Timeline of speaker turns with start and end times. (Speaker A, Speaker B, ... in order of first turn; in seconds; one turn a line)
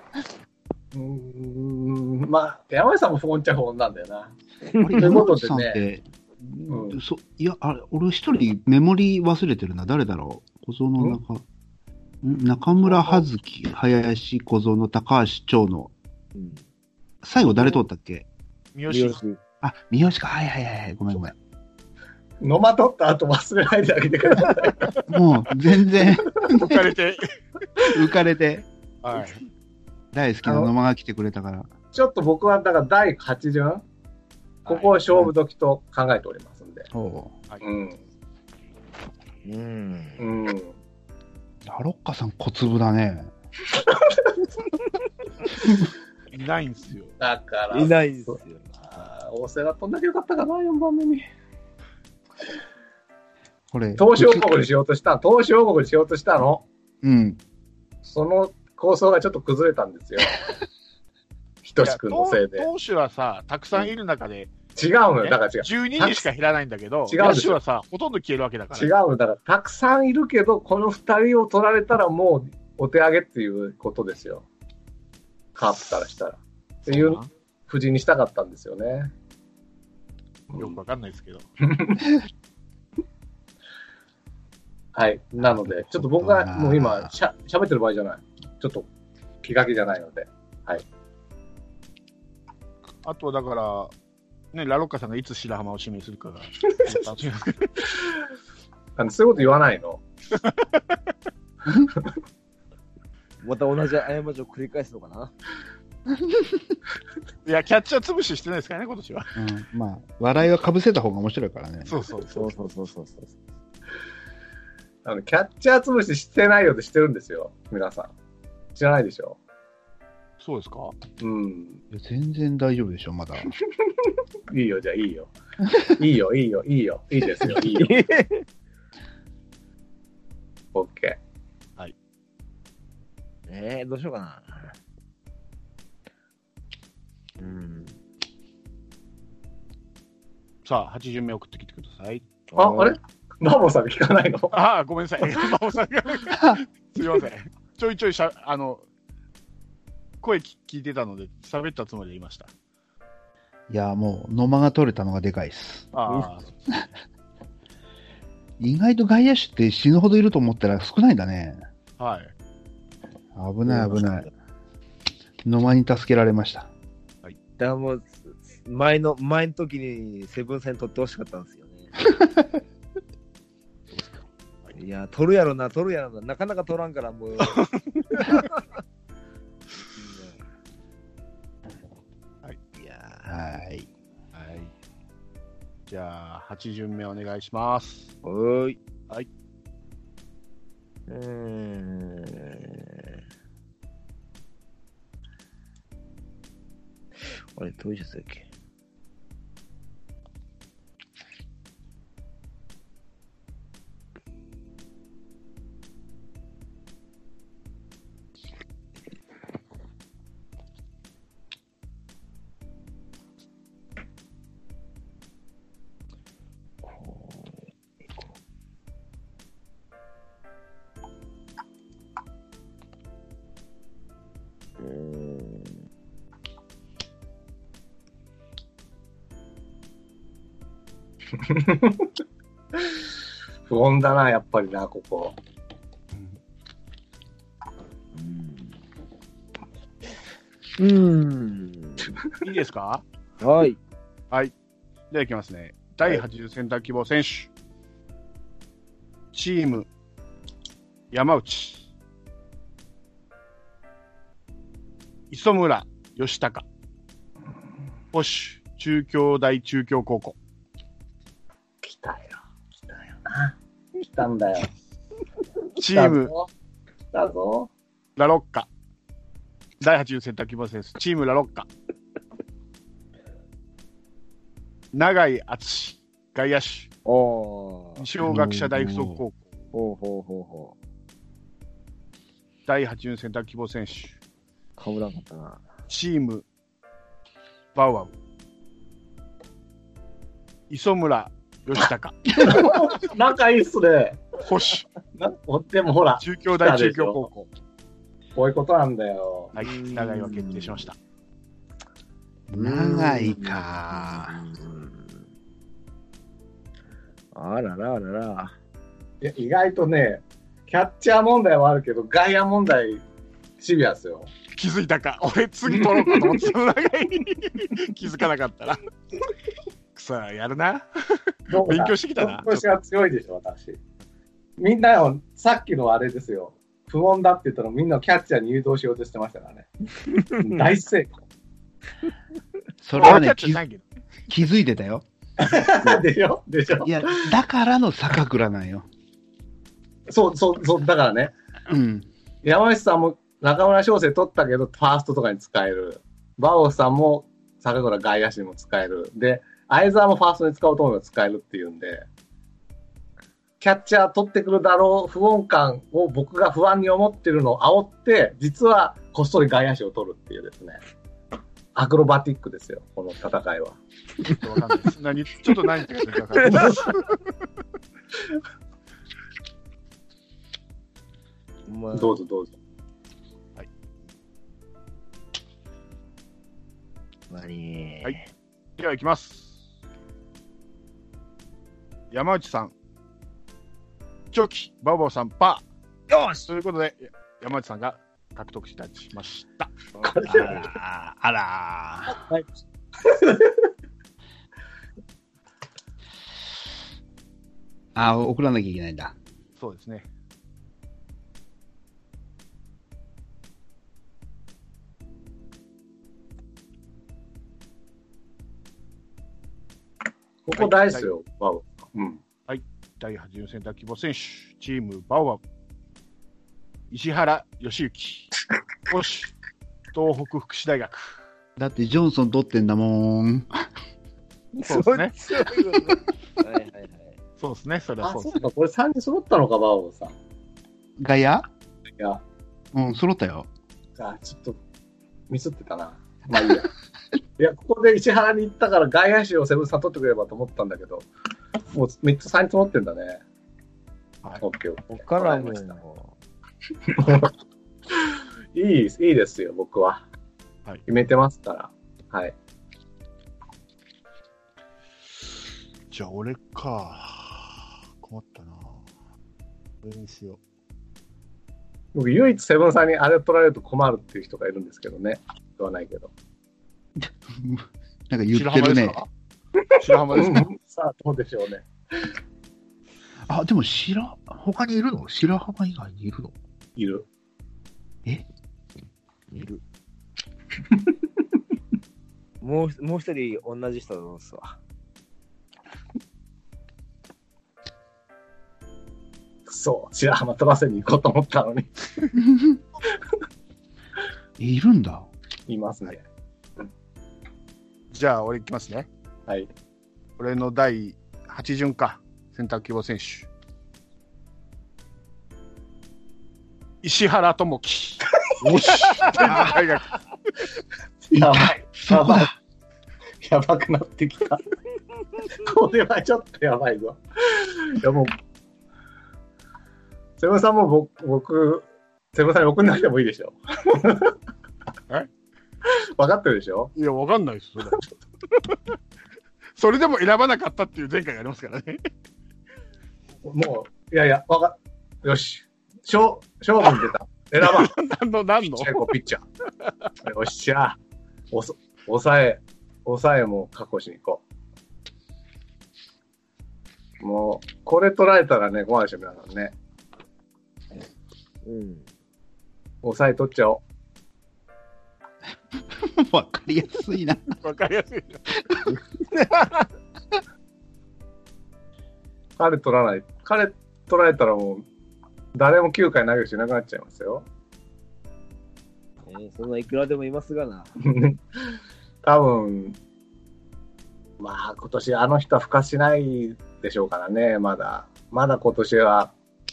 Speaker A: 0.9-4.3
Speaker B: 4.7-5.3
Speaker C: 4.8-11.4
Speaker A: 5.0-5.8
Speaker A: 6.7-7.0
Speaker C: 12.2-15.9
Speaker B: 16.4-16.6
Speaker C: 17.2-18.3
Speaker D: 18.8-19.2
Speaker B: 18.9-19.4
Speaker C: 19.6-21.4
Speaker A: 22.4-25.0
Speaker C: 25.1-26.9
Speaker D: 26.5-27.3
Speaker C: 27.8-28.6
Speaker D: 29.0-29.4
Speaker C: 30.1-31.7
Speaker A: 30.5-30.7
Speaker A: 31.9-33.8
Speaker D: 34.6-35.0
Speaker A: 34.7-36.9
Speaker C: 36.9-37.3
Speaker A: 37.6-38.0
Speaker B: 39.5-40.3
Speaker A: 40.2-40.8
Speaker C: 41.6-43.3
Speaker A: 43.8-44.3
Speaker D: 46.3-47.1
Speaker A: 47.2-48.4
Speaker B: 47.7-48.7
Speaker A: 48.9-51.2
Speaker C: 53.7-54.5
Speaker A: 54.0-56.7
Speaker C: 57.0-57.4
Speaker A: 58.0-60.4
Speaker A: 61.6-62.7
Speaker D: 61.8-64.5
Speaker A: 64.8-66.2
Speaker D: 65.2-68.9
Speaker A: 67.1-67.6
Speaker A: 68.7-74.5
Speaker A: 75.6-79.1
Speaker D: 76.9-77.3
Speaker A: 80.5-80.8
Speaker D: 80.6-81.5
Speaker A: 81.7-82.1
Speaker A: 85.0-88.9
Speaker C: 85.4-87.1
Speaker A: 89.4-90.8
Speaker D: 93.0-93.9
Speaker D: 94.5-97.8
Speaker A: 96.7-97.0
Speaker A: 99.0-100.0
Speaker D: 100.3-100.8
Speaker C: 101.7-101.9
Speaker B: 103.4-105.3
Speaker C: 106.3-106.7
Speaker D: 107.5-109.3
Speaker C: 109.4-112.0
Speaker D: 111.9-112.5
Speaker B: 112.2-113.3
Speaker A: 115.0-118.1
Speaker A: 118.8-119.4
Speaker D: 120.4-121.0
Speaker A: 121.2-121.8
Speaker C: 121.9-123.5
Speaker A: 124.5-128.0
Speaker B: 127.6-128.5
Speaker A: 130.8-131.2
Speaker B: 133.5-134.8
Speaker B: 137.4-138.0
Speaker D: 140.7-142.2
Speaker B: 142.5-143.0
Speaker A: 142.6-144.5
Speaker D: 144.5-148.8
Speaker C: 146.3-146.6
Speaker D: 150.2-152.5
Speaker C: 153.7-155.9
Speaker D: 155.9-156.5
Speaker C: 158.6-161.6
Speaker D: 162.0-162.3
Speaker C: 163.3-164.3
Speaker B: 163.7-164.3
Speaker C: 165.4-166.7
Speaker B: 167.6-171.9
Speaker D: 173.9-174.7
Speaker B: 174.8-178.6
Speaker D: 177.4-178.4
Speaker B: 179.8-180.4
Speaker B: 182.8-183.4
Speaker C: 183.3-183.9
Speaker D: 184.3-184.7
Speaker D: 185.9-188.1
Speaker B: 188.2-188.8
Speaker B: 191.1-193.2
Speaker B: 197.2-198.5
Speaker B: 216.8-218.3
Speaker B: 224.8-225.8
Speaker A: 231.4-232.1
Speaker A: 232.8-233.1
Speaker A: 233.7-235.4
Speaker B: 238.1-238.8
Speaker B: 240.8-242.2
Speaker D: 242.4-243.0
Speaker B: 243.4-243.8
Speaker D: 245.1-247.5
Speaker D: 249.3-249.9
Speaker D: 251.1-251.8
Speaker D: 255.3-256.6
Speaker D: 258.1-260.4
Speaker A: 261.8-264.7
Speaker D: 265.8-266.3
Speaker A: 265.9-266.5
Speaker A: 267.1-267.7
Speaker D: 268.2-268.7
Speaker D: 269.8-271.7
Speaker D: 274.9-276.9
Speaker B: 277.1-278.1
Speaker D: 278.0-279.4
Speaker C: 278.2-279.2
Speaker B: 279.7-280.8
Speaker D: 282.7-284.2
Speaker B: 284.8-285.6
Speaker D: 285.9-286.4
Speaker D: 287.8-288.1
Speaker D: 290.7-292.9
Speaker A: 292.4-294.4
Speaker D: 294.4-294.9
Speaker A: 295.2-297.3
Speaker D: 296.2-297.5
Speaker A: 298.4-299.5
Speaker D: 299.6-301.0
Speaker B: 299.6-300.9
Speaker C: 302.5-304.4
Speaker B: 302.6-305.2
Speaker B: 307.3-308.6
Speaker A: 309.2-313.0
Speaker A: 313.6-314.3
Speaker D: 314.5-318.8
Speaker A: 315.8-316.4
Speaker D: 320.0-322.7
Speaker A: 321.5-323.8
Speaker A: 324.6-329.7
Speaker A: 330.2-331.2
Speaker C: 332.8-333.6
Speaker D: 333.0-333.8
Speaker C: 334.3-335.1
Speaker A: 335.4-337.3
Speaker C: 336.8-338.9
Speaker A: 340.1-341.3
Speaker C: 341.7-342.1
Speaker A: 342.4-352.1
Speaker A: 353.6-360.8
Speaker A: 361.8-363.8
Speaker D: 364.3-367.1
Speaker B: 366.4-366.7
Speaker A: 366.5-366.8
Speaker B: 371.7-372.2
Speaker A: 371.9-372.5
Speaker B: 377.3-378.3
Speaker D: 378.8-379.6
Speaker D: 382.1-382.7
Speaker D: 384.3-385.6
Speaker B: 386.1-386.5
Speaker D: 386.5-389.8
Speaker A: 390.0-390.7
Speaker C: 390.2-392.2
Speaker A: 392.1-392.5
Speaker A: 393.0-393.7
Speaker C: 397.9-399.1
Speaker D: 399.6-400.1
Speaker A: 410.5-412.2
Speaker D: 410.5-411.1
Speaker D: 412.5-415.4
Speaker D: 416.9-418.3
Speaker D: 418.9-419.3
Speaker D: 419.9-421.2
Speaker C: 421.6-423.7
Speaker B: 424.5-427.2
Speaker D: 424.7-425.1
Speaker D: 427.4-428.5
Speaker A: 428.0-430.1
Speaker C: 431.0-431.5
Speaker C: 432.7-433.5
Speaker A: 434.0-434.6
Speaker A: 435.3-436.7
Speaker A: 437.4-441.1
Speaker A: 441.7-443.2
Speaker A: 444.4-445.7
Speaker B: 444.9-446.1
Speaker A: 446.9-447.3
Speaker A: 447.9-450.0
Speaker A: 450.9-452.4
Speaker D: 455.9-458.8
Speaker D: 459.8-460.4
Speaker A: 461.9-466.1
Speaker C: 467.0-469.0
Speaker D: 468.3-469.1
Speaker A: 469.6-472.1
Speaker D: 469.8-470.5
Speaker C: 473.3-476.4
Speaker A: 476.8-477.1
Speaker B: 479.3-479.6
Speaker B: 482.4-484.6
Speaker A: 489.5-491.7
Speaker C: 494.4-495.1
Speaker A: 495.5-496.1
Speaker D: 497.9-498.9
Speaker D: 500.2-503.3
Speaker D: 506.8-510.0
Speaker A: 508.3-508.8
Speaker C: 509.2-509.6
Speaker A: 511.1-512.3
Speaker C: 511.2-512.3
Speaker A: 513.2-514.4
Speaker A: 515.2-518.1
Speaker A: 520.2-524.1
Speaker A: 525.7-526.7
Speaker D: 526.8-527.8
Speaker D: 529.6-531.8
Speaker A: 533.2-537.7
Speaker D: 537.4-538.9
Speaker A: 538.5-539.2
Speaker A: 540.0-540.8
Speaker A: 541.3-544.2
Speaker A: 547.0-549.5
Speaker B: 551.4-551.9
Speaker A: 552.8-553.6
Speaker C: 555.6-557.4
Speaker D: 557.4-558.3
Speaker B: 558.7-559.7
Speaker A: 562.4-564.7
Speaker A: 565.4-567.3
Speaker B: 569.1-570.7
Speaker A: 570.9-571.2
Speaker A: 572.0-572.8
Speaker A: 574.2-579.1